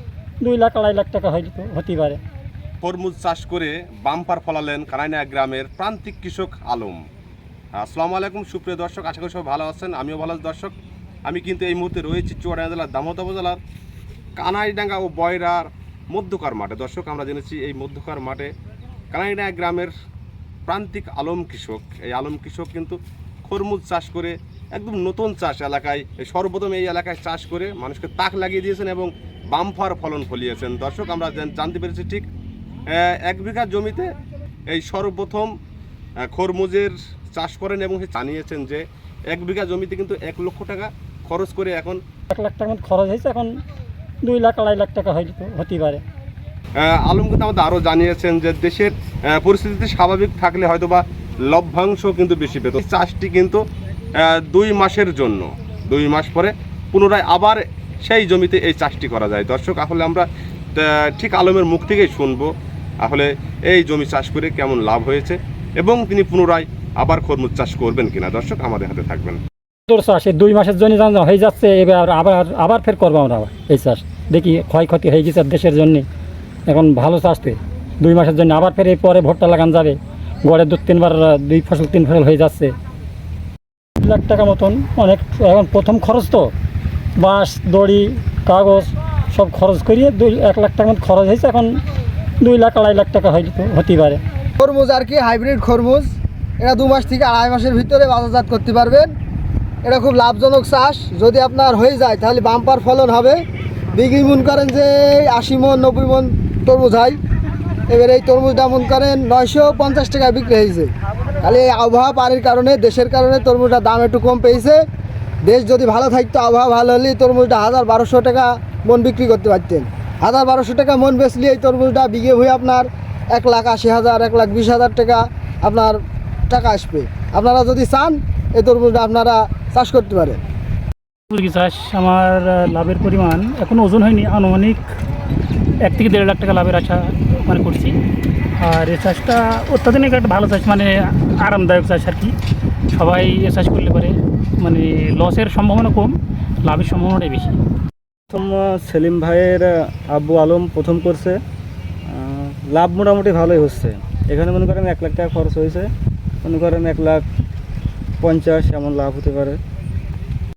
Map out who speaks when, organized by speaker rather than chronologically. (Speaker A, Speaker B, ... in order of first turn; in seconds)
Speaker A: 0.4-2.2, 42.3-43.5, 44.2-46.0, 69.9-76.1, 76.7-82.7, 84.0-86.5, 87.2-91.8, 92.4-94.2
Speaker B: 2.8-7.0, 7.8-10.7, 11.3-13.6, 14.4-18.5, 19.1-19.9, 20.7-23.0, 23.5-32.3, 32.9-34.1, 34.7-35.5, 36.3-42.0, 46.8-53.6, 54.2-62.5, 63.0-69.4
Speaker C: 94.6-96.1, 96.6-99.1, 99.8-103.4, 104.0-107.2, 107.9-114.8, 115.5-126.0, 126.5-130.4
Speaker D: 131.3-134.8, 135.9-138.0, 138.6-142.3, 142.9-147.5
Speaker E: 148.5-151.4, 152.2-155.9, 156.5-157.2, 158.2-159.6